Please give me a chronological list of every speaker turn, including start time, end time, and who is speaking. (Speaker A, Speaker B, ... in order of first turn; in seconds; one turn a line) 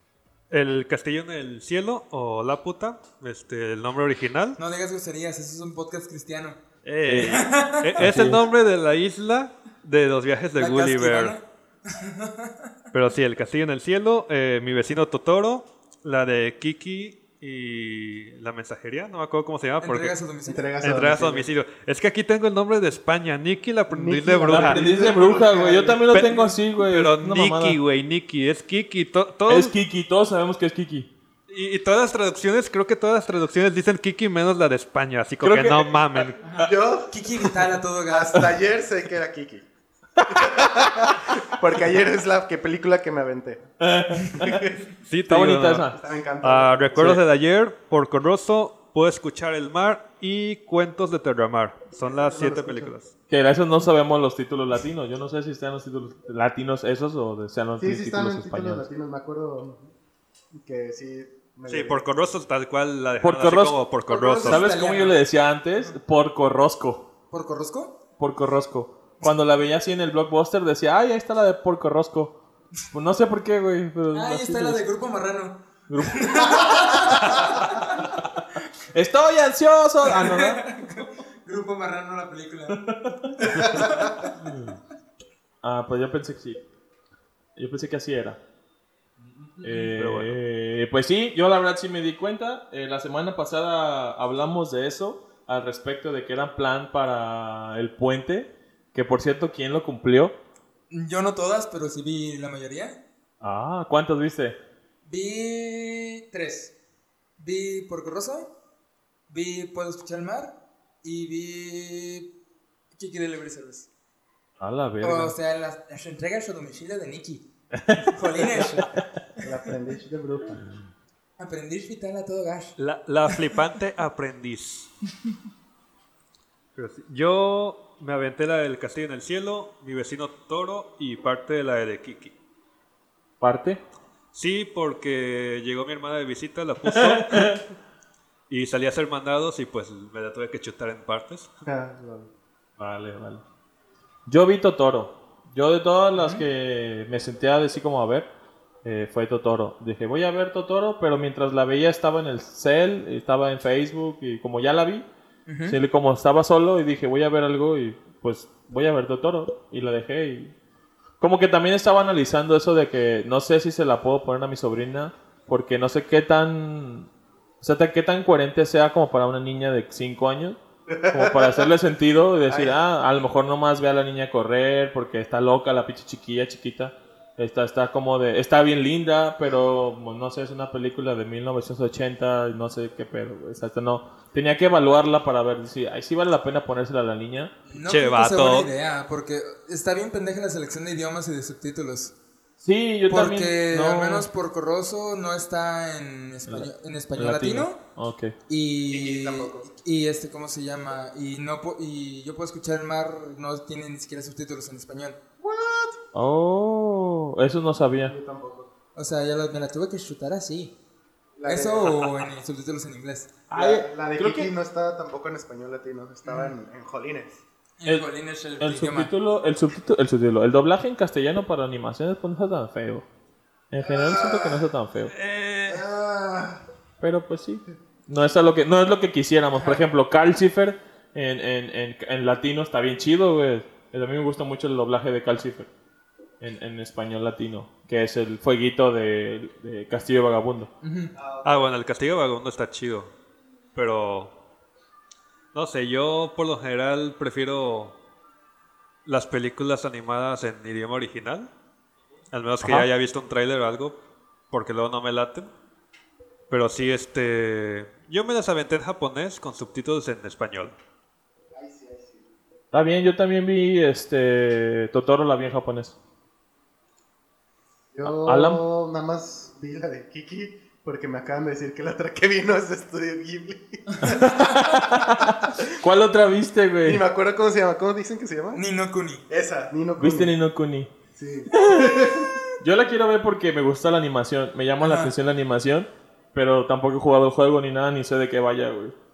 Speaker A: 0.5-4.6
Speaker B: 4.6-6.6
Speaker A: 6.8-11.4
Speaker C: 7.0-8.4
Speaker B: 7.2-8.0
Speaker B: 10.6-12.7
Speaker A: 12.9-20.2
Speaker B: 19.8-20.7
Speaker D: 20.5-21.5
Speaker A: 20.8-24.9
Speaker D: 23.9-26.0
Speaker C: 24.5-27.8
Speaker A: 26.1-29.7
Speaker C: 29.5-31.1
Speaker A: 31.5-36.5
Speaker C: 35.4-36.3
Speaker B: 36.4-38.5
Speaker D: 36.6-37.1
Speaker D: 38.1-39.7
Speaker D: 40.2-43.6
Speaker C: 40.3-40.5
Speaker C: 43.8-44.7
Speaker D: 44.4-44.8
Speaker A: 45.0-45.9
Speaker C: 45.3-46.0
Speaker D: 45.9-47.2
Speaker A: 46.4-53.1
Speaker C: 47.0-47.2
Speaker D: 52.0-52.9
Speaker C: 53.3-58.9
Speaker D: 57.8-59.9
Speaker D: 60.5-62.0
Speaker A: 61.7-64.6
Speaker C: 63.2-63.8
Speaker B: 64.1-65.2
Speaker C: 64.4-67.1
Speaker B: 67.3-68.0
Speaker C: 68.2-72.4
Speaker C: 72.9-74.8
Speaker B: 74.1-78.1
Speaker C: 75.9-78.0
Speaker C: 78.9-80.7
Speaker B: 80.0-82.8
Speaker C: 82.8-83.3
Speaker D: 83.4-84.2
Speaker B: 83.5-84.5
Speaker C: 84.4-84.8
Speaker C: 85.6-86.6
Speaker C: 87.6-88.4
Speaker B: 89.2-89.9
Speaker C: 89.6-100.4
Speaker A: 90.0-90.4
Speaker B: 100.9-103.0
Speaker C: 103.4-104.6
Speaker B: 105.0-106.7
Speaker B: 107.4-108.5
Speaker B: 109.3-112.3
Speaker B: 113.0-113.9
Speaker C: 114.6-115.4
Speaker B: 115.0-117.5
Speaker C: 117.7-118.9
Speaker B: 118.0-119.4
Speaker D: 119.4-120.6
Speaker B: 121.4-122.8
Speaker A: 122.8-124.9
Speaker A: 126.8-132.3
Speaker C: 133.4-133.8
Speaker A: 134.3-137.7
Speaker C: 136.8-137.6
Speaker A: 138.5-141.5
Speaker D: 141.7-142.3
Speaker C: 142.8-143.4
Speaker C: 144.3-148.3
Speaker B: 146.2-146.4
Speaker C: 148.8-155.1
Speaker B: 155.5-155.8
Speaker C: 155.7-160.6
Speaker C: 161.2-167.1
Speaker C: 167.6-187.6
Speaker D: 170.9-171.7
Speaker D: 172.5-172.8
Speaker B: 187.7-192.2
Speaker A: 187.8-188.7
Speaker C: 192.6-194.3
Speaker B: 193.1-197.8
Speaker C: 196.5-198.4
Speaker B: 198.5-205.2
Speaker D: 198.9-199.7
Speaker D: 205.4-206.0
Speaker C: 206.1-208.1
Speaker D: 208.0-208.7
Speaker B: 209.0-210.8
Speaker D: 211.4-211.9
Speaker B: 211.5-213.4
Speaker C: 213.5-214.5
Speaker D: 213.5-217.4
Speaker B: 216.2-216.6
Speaker B: 217.8-219.1
Speaker C: 218.6-223.1
Speaker C: 223.7-225.1
Speaker D: 223.8-224.6
Speaker A: 225.1-225.8
Speaker D: 225.7-226.6
Speaker C: 227.0-235.7
Speaker C: 236.4-240.7
Speaker B: 240.8-241.1
Speaker D: 241.2-241.7
Speaker A: 241.4-243.1
Speaker A: 243.8-244.3
Speaker A: 245.5-247.9
Speaker A: 249.1-251.5
Speaker A: 252.3-254.0
Speaker C: 252.6-252.9
Speaker A: 254.5-255.5
Speaker A: 256.5-260.8
Speaker D: 261.5-262.3
Speaker C: 262.7-266.0
Speaker D: 267.9-274.2
Speaker C: 268.1-268.6
Speaker B: 273.9-274.6
Speaker C: 274.0-277.0
Speaker D: 274.9-275.5
Speaker D: 276.9-278.6
Speaker B: 278.5-279.3
Speaker D: 279.3-280.3
Speaker C: 280.0-280.9
Speaker D: 281.2-282.4
Speaker C: 281.5-288.9
Speaker B: 284.8-285.1